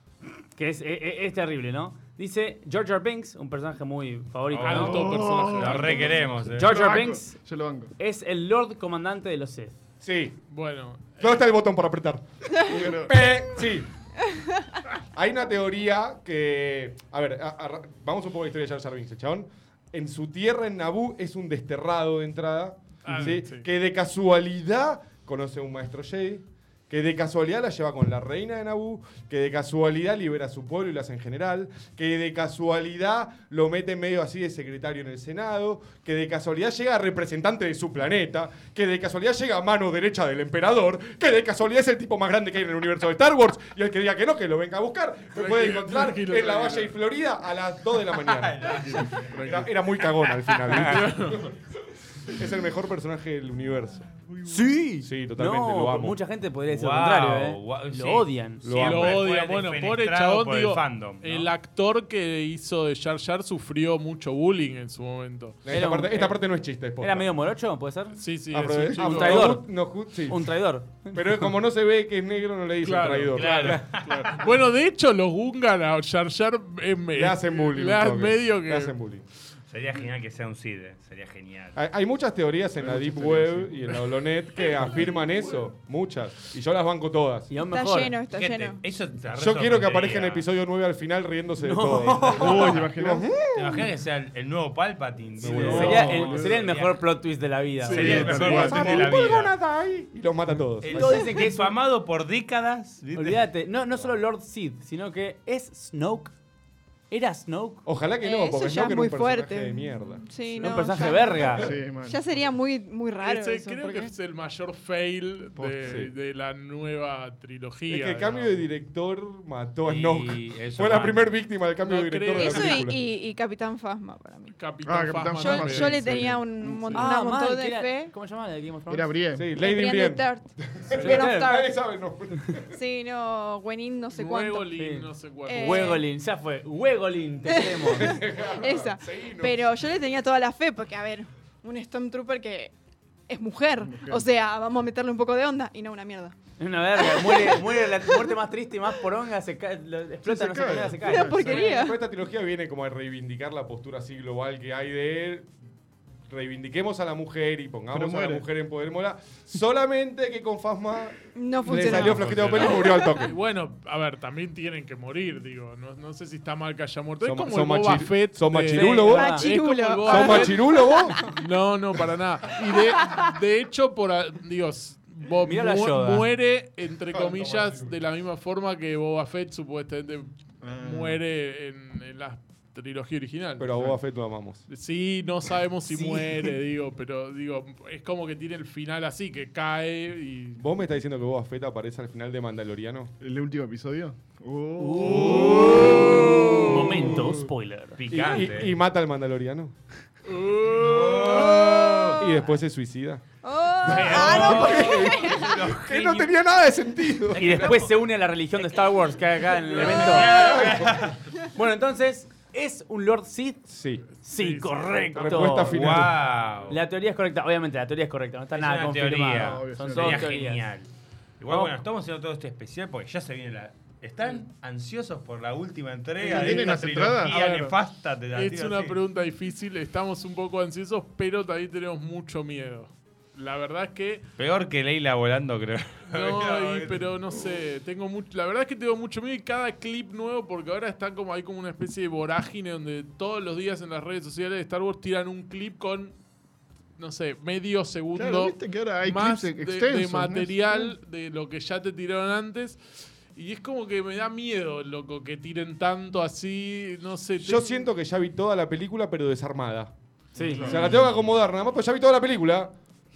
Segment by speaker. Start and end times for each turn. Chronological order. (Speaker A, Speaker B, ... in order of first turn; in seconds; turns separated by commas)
Speaker A: 0.6-6.0, Speaker B: 4.5-6.8, Speaker C: 4.6-6.1, Speaker D: 4.7-7.9, Speaker A: 6.5-7.4, Speaker A: 8.0-9.7, Speaker E: 10.0-10.4, Speaker C: 10.5-11.3, Speaker E: 11.2-13.9, Speaker D: 12.7-13.3, Speaker E: 15.1-51.5, Speaker C: 23.0-23.7, Speaker C: 45.4-46.9, Speaker B: 48.2-49.4, Speaker C: 48.8-49.7, Speaker C: 50.6-51.5, Speaker E: 52.3-54.1, Speaker A: 54.5-58.6, Speaker E: 55.0-56.2, Speaker B: 56.7-61.5, Speaker E: 58.6-59.2, Speaker C: 58.8-65.6, Speaker E: 65.6-67.3, Speaker A: 65.7-66.4, Speaker A: 67.0-68.2, Speaker C: 68.1-69.5, Speaker E: 68.5-70.5, Speaker A: 68.9-69.7, Speaker A: 70.2-71.4, Speaker E: 71.1-73.9, Speaker C: 72.8-78.9, Speaker B: 73.3-74.4, Speaker E: 77.1-79.2, Speaker B: 79.7-81.8, Speaker E: 81.8-87.5, Speaker D: 82.8-83.8, Speaker A: 87.5-88.2, Speaker F: 87.6-88.8, Speaker B: 88.3-90.5, Speaker E: 89.3-93.9, Speaker A: 91.6-92.8, Speaker D: 92.2-93.4, Speaker B: 93.5-97.0, Speaker E: 95.4-96.5, Speaker C: 95.5-96.4, Speaker A: 95.5-98.6, Speaker D: 95.7-96.5, Speaker C: 97.8-99.1, Speaker B: 97.9-99.5, Speaker D: 98.1-98.8, Speaker E: 98.1-101.2, Speaker B: 100.8-103.4, Speaker A: 100.9-101.8, Speaker A: 103.1-106.3, Speaker A: 107.1-107.8, Speaker E: 107.9-110.7, Speaker F: 108.2-114.1, Speaker A: 110.6-111.7, Speaker D: 111.5-112.4, Speaker C: 113.2-118.6, Speaker D: 115.6-116.1, Speaker E: 115.8-116.1, Speaker E: 117.9-123.0, Speaker B: 119.9-121.4, Speaker C: 121.8-122.9, Speaker F: 122.3-124.6, Speaker C: 124.5-127.1, Speaker D: 124.8-127.0, Speaker F: 125.3-128.1, Speaker A: 126.9-129.1, Speaker D: 128.9-129.5, Speaker E: 129.4-132.7, Speaker F: 129.6-131.7, Speaker A: 131.0-131.5, Speaker F: 132.7-134.8, Speaker C: 134.1-136.0, Speaker A: 134.7-138.2, Speaker F: 135.4-136.1, Speaker F: 137.4-142.7, Speaker E: 137.9-139.6, Speaker F: 143.3-146.3, Speaker D: 143.8-144.2, Speaker A: 146.6-151.8, Speaker F: 146.9-148.4, Speaker D: 150.2-151.6, Speaker F: 151.0-152.0, Speaker E: 151.5-155.5, Speaker E: 156.3-163.4, Speaker D: 157.9-158.4, Speaker F: 161.3-163.2, Speaker B: 162.0-162.8, Speaker C: 163.2-170.7, Speaker E: 167.2-169.4, Speaker A: 168.7-169.6, Speaker F: 169.1-171.3, Speaker E: 170.0-171.2, Speaker C: 171.2-183.9, Speaker A: 175.4-176.3, Speaker E: 177.1-177.9, Speaker D: 180.6-181.2, Speaker E: 183.6-184.6, Speaker C: 184.7-190.6, Speaker A: 185.9-186.3, Speaker E: 190.6-193.1, Speaker D: 193.2-196.7, Speaker A: 194.8-198.0, Speaker B: 195.0-196.1, Speaker E: 195.7-196.5, Speaker E: 197.0-197.4, Speaker B: 198.0-198.7, Speaker E: 198.1-199.7, Speaker C: 200.2-202.1, Speaker B: 200.6-202.3, Speaker E: 202.2-203.2, Speaker F: 203.4-205.6, Speaker E: 203.8-207.7, Speaker A: 203.9-204.6, Speaker B: 204.1-206.3, Speaker B: 207.3-207.9, Speaker A: 207.3-210.6, Speaker C: 209.6-210.3, Speaker B: 209.7-211.2, Speaker E: 210.3-211.0, Speaker A: 211.6-213.6, Speaker E: 213.7-214.0, Speaker C: 214.2-215.6, Speaker A: 214.2-216.1, Speaker E: 215.2-216.2, Speaker B: 215.7-216.8, Speaker A: 216.7-220.7, Speaker B: 218.5-220.9, Speaker D: 219.3-220.3, Speaker B: 221.4-229.0, Speaker A: 221.5-221.8, Speaker C: 226.2-227.8, Speaker D: 226.2-227.3, Speaker C: 228.3-234.2, Speaker B: 234.4-237.1, Speaker C: 236.1-246.2, Speaker C: 247.0-257.8, Speaker D: 248.1-250.9, Speaker E: 257.4-259.9, Speaker A: 260.4-260.8, Speaker D: 260.4-261.0, Speaker E: 260.6-262.7, Speaker B: 260.9-261.1